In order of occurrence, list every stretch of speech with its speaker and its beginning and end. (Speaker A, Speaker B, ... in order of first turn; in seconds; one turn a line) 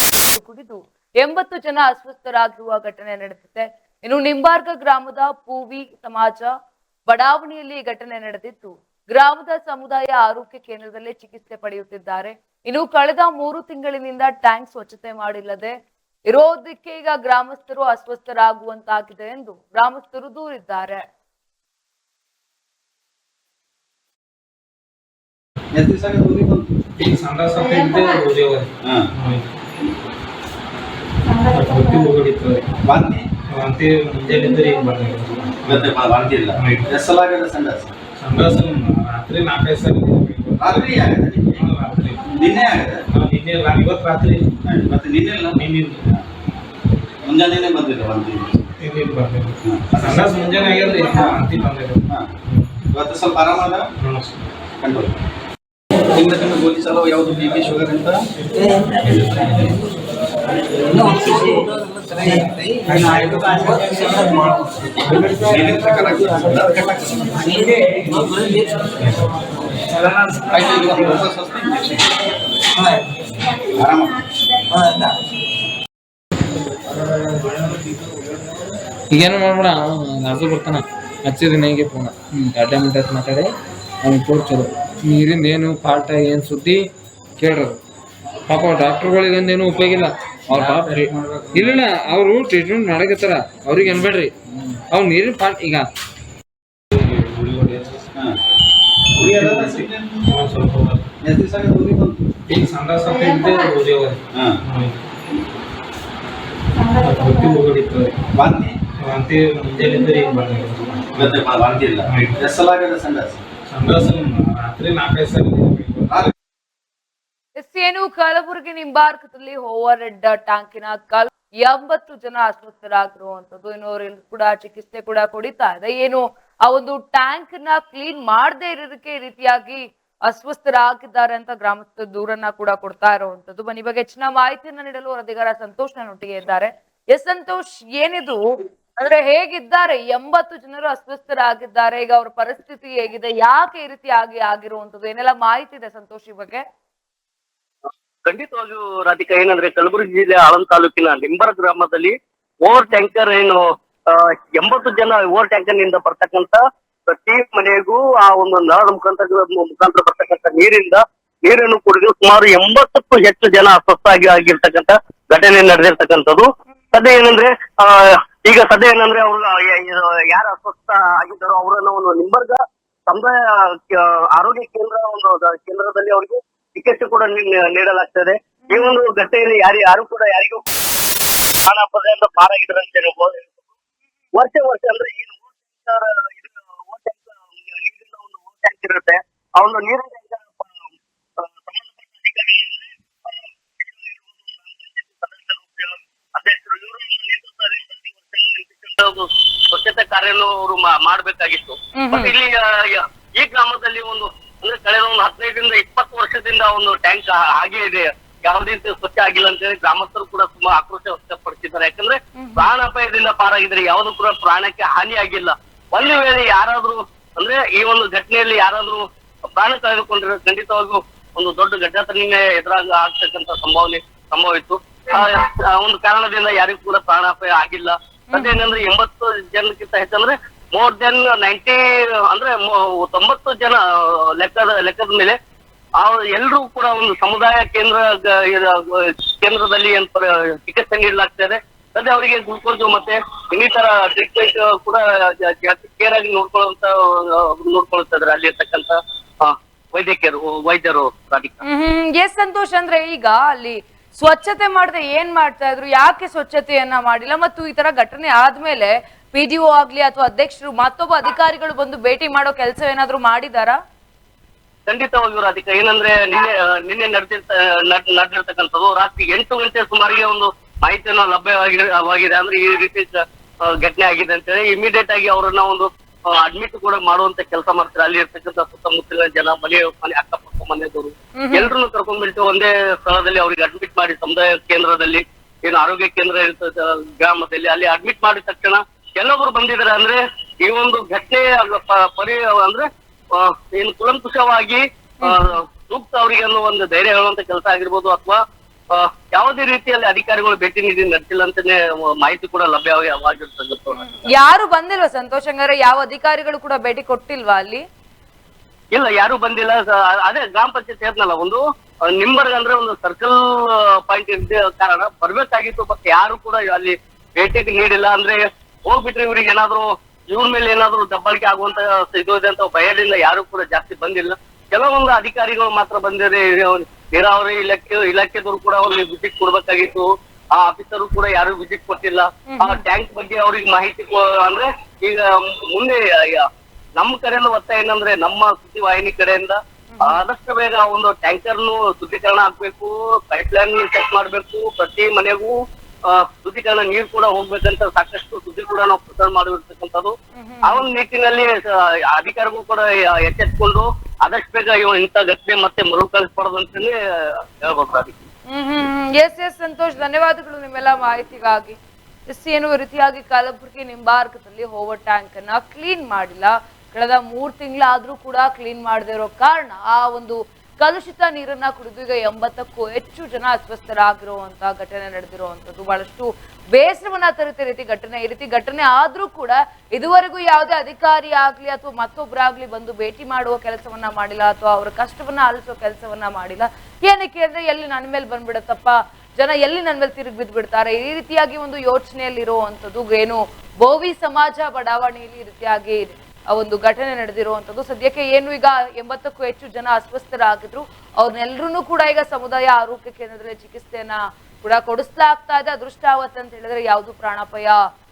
Speaker A: 0.3-6.5
Speaker A: 7.1-15.7
Speaker A: 16.3-21.0
Speaker B: 25.7-26.8
Speaker C: 27.0-29.6
Speaker B: 28.8-29.1
Speaker C: 31.4-32.7
Speaker B: 32.8-33.3
Speaker C: 33.5-35.9
Speaker B: 35.7-37.9
Speaker C: 36.5-36.9
Speaker C: 38.2-41.0
Speaker B: 40.6-41.6
Speaker C: 41.5-42.2
Speaker B: 42.3-43.0
Speaker C: 43.1-44.6
Speaker B: 44.6-46.3
Speaker C: 45.6-46.0
Speaker B: 47.2-48.7
Speaker C: 48.8-52.8
Speaker B: 49.6-50.3
Speaker B: 52.9-53.9
Speaker C: 54.0-54.4
Speaker B: 54.8-55.1
Speaker B: 56.1-58.2
Speaker C: 59.1-59.6
Speaker C: 62.9-64.5
Speaker B: 65.3-67.6
Speaker B: 70.5-72.1
Speaker B: 73.7-74.2
Speaker D: 79.1-83.5
Speaker D: 84.0-86.8
Speaker D: 87.4-87.8
Speaker D: 88.5-94.3
Speaker C: 90.8-91.1
Speaker D: 94.9-95.9
Speaker C: 96.9-98.1
Speaker B: 99.1-100.3
Speaker C: 99.2-101.1
Speaker B: 101.2-102.3
Speaker C: 102.5-105.1
Speaker C: 106.9-108.2
Speaker B: 108.3-108.8
Speaker C: 109.0-111.4
Speaker B: 111.2-113.4
Speaker C: 112.0-112.4
Speaker C: 113.7-116.3
Speaker A: 117.6-146.6
Speaker E: 148.3-152.1
Speaker E: 152.7-180.6
Speaker A: 152.7-153.0
Speaker A: 178.7-178.9
Speaker E: 181.7-183.7
Speaker E: 184.4-233.8
Speaker A: 202.0-202.3
Speaker A: 212.4-212.7
Speaker A: 228.3-228.8
Speaker E: 234.4-235.3
Speaker E: 236.0-251.6
Speaker A: 251.6-263.8
Speaker E: 264.9-298.4
Speaker A: 281.4-281.7
Speaker A: 295.2-295.6
Speaker E: 298.9-304.1
Speaker A: 304.0-307.8
Speaker E: 308.9-336.4
Speaker A: 332.5-332.8
Speaker E: 337.0-345.6
Speaker A: 339.9-340.2
Speaker E: 346.1-351.5
Speaker A: 350.4-350.9
Speaker E: 352.1-356.9
Speaker E: 357.6-358.1
Speaker A: 358.5-407.8